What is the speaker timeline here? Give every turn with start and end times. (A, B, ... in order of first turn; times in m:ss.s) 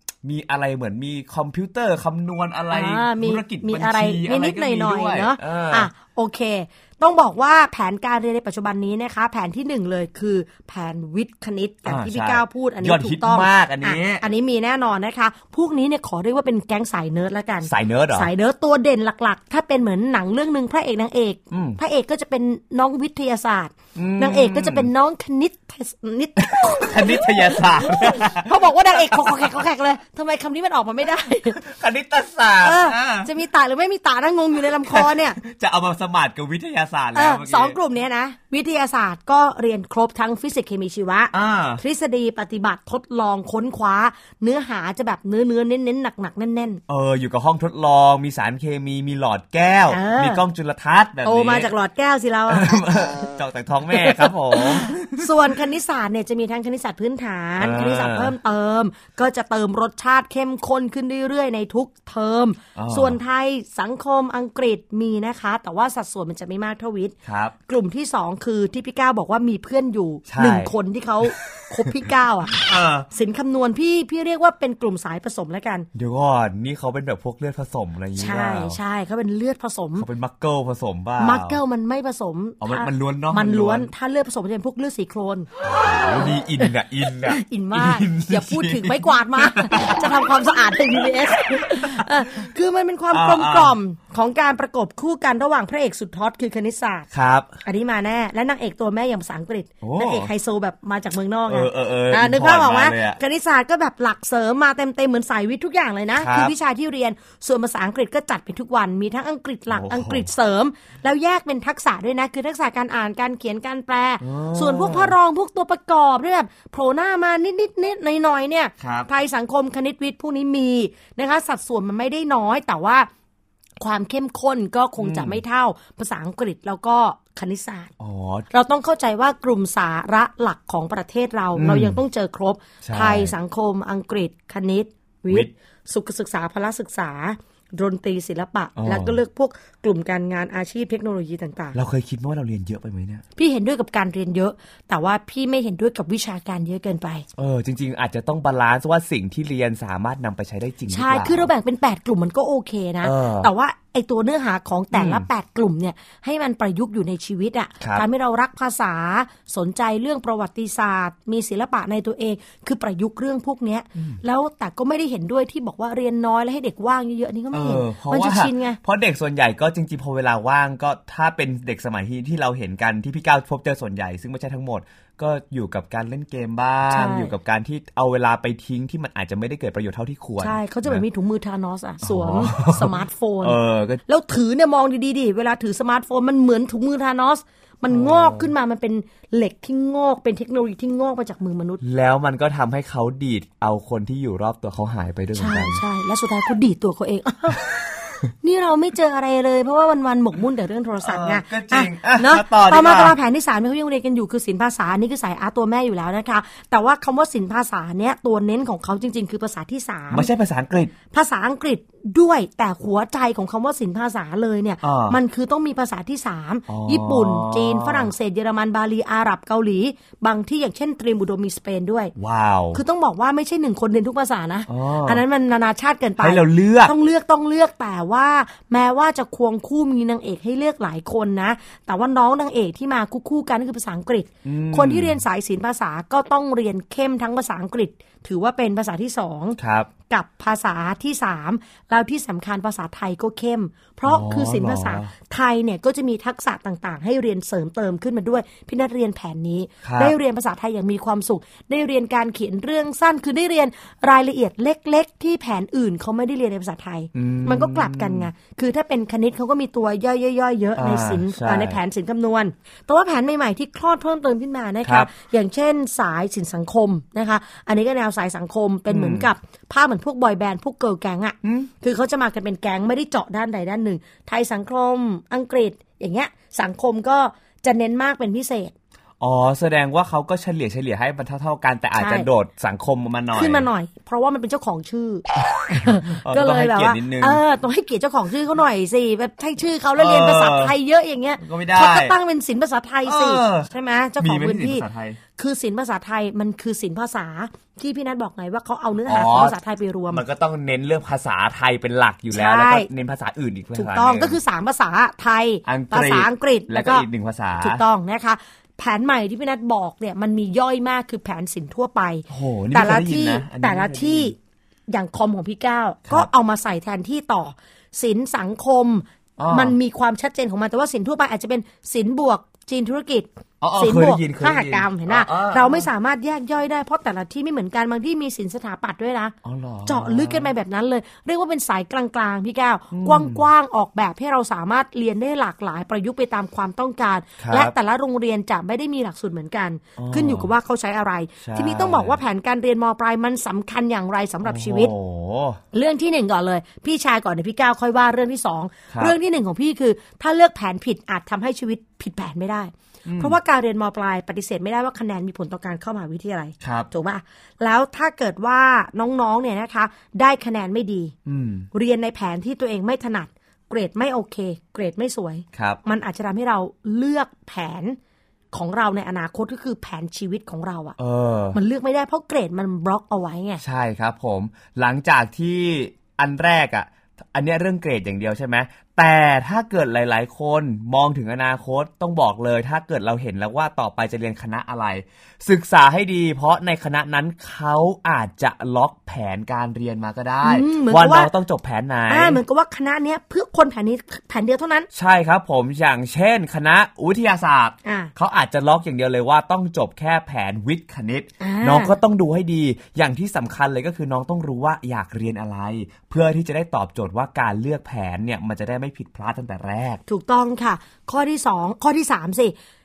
0:00.2-0:05.9 A
0:02.7-0:31.6 B
0:11.8-0:14.2 A
0:17.6-0:18.3 A
0:21.5-0:21.8 A
0:23.9-0:24.9 A
0:26.4-0:29.5 A
0:31.5-0:33.3 A
0:32.6-0:35.4 B
0:34.9-0:37.8 A
0:37.1-0:46.8 B
0:41.3-0:41.8 A
0:46.9-0:51.7 A
0:49.9-0:50.4 B
0:51.2-0:53.3 B
0:52.5-0:55.3 A
0:53.9-1:07.1 B
0:57.6-0:58.3 A
1:02.8-1:03.2 A
1:07.2-1:07.5 A
1:07.7-1:15.9 B
1:10.3-1:10.7 A
1:12.6-1:13.1 A
1:15.9-1:18.8 A
1:18.2-1:20.0 B
1:20.0-1:21.6 A
1:21.2-1:25.5 B
1:22.6-1:23.9 A
1:25.6-1:30.1 A
1:27.2-1:37.1 B
1:33.1-1:33.8 A
1:37.1-1:37.5 A
1:37.6-2:03.1 B
1:39.8-1:40.3 A
1:41.5-1:43.2 A
1:46.1-1:46.5 A
1:49.7-1:50.3 A
1:54.2-1:55.2 A
1:58.8-1:59.1 A
2:03.8-2:07.9 B
2:05.0-2:05.4 A
2:08.0-2:08.5 A
2:08.5-2:21.8 B
2:11.5-2:12.0 A
2:12.8-2:13.3 A
2:18.8-2:19.2 A
2:21.7-2:23.2 A
2:23.4-2:27.2 B
2:27.4-2:31.5 A
2:30.9-2:48.8 B
2:33.0-2:33.5 A
2:34.9-2:35.2 A
2:47.5-3:01.0 A
2:56.9-2:57.3 B
3:00.4-3:11.8 B
3:02.0-3:04.0 A
3:07.9-3:08.5 A
3:11.8-3:15.8 A
3:15.3-3:17.8 B
3:18.3-3:30.3 B
3:21.0-3:23.2 A
3:30.1-3:30.9 A
3:31.1-3:42.1 B
3:34.8-3:35.2 A
3:36.7-3:38.1 A
3:42.2-3:42.8 A
3:42.7-3:59.6 B
3:44.7-3:45.2 A
3:46.2-3:46.9 A
3:54.4-3:55.2 A
3:59.6-3:59.9 A
4:00.1-4:38.7 B
4:04.0-4:05.1 A
4:09.8-4:10.2 A
4:17.1-4:18.3 A
4:20.8-4:21.8 A
4:24.8-4:25.1 A
4:28.9-4:29.3 A
4:31.4-4:31.7 A
4:39.2-4:43.7 A
4:42.0-4:42.3 B
4:43.3-4:54.8 B
4:45.9-4:47.4 A
4:50.0-4:50.7 A
4:51.4-4:52.1 A
4:53.0-4:55.2 A
4:55.4-5:00.2 B
4:59.1-4:59.6 A
5:00.1-5:04.4 A
5:02.3-5:02.9 B
5:03.8-5:07.0 B
5:05.6-5:07.8 A
5:07.6-5:14.4 B
5:12.3-5:14.3 A
5:14.9-5:29.3 B
5:19.4-5:19.8 A
5:23.6-5:25.9 A
5:29.4-5:30.5 A
5:29.8-5:44.9 B
5:32.9-5:33.4 A
5:37.4-5:37.7 A
5:40.0-5:40.5 A
5:41.4-5:42.2 A
5:44.4-5:45.6 A
5:45.7-6:01.1 B
5:53.0-5:53.4 A
5:56.6-5:56.9 A
6:01.2-6:01.7 A
6:01.7-6:08.0 B
6:05.5-6:05.8 A
6:08.5-6:11.0 B
6:11.0-6:11.6 A
6:11.5-6:13.6 B
6:13.6-6:32.4 A
6:30.4-6:31.3 B
6:32.1-6:34.9 B
6:34.9-6:50.0 A
6:37.8-6:38.1 B
6:41.4-6:42.0 B
6:50.1-6:52.5 B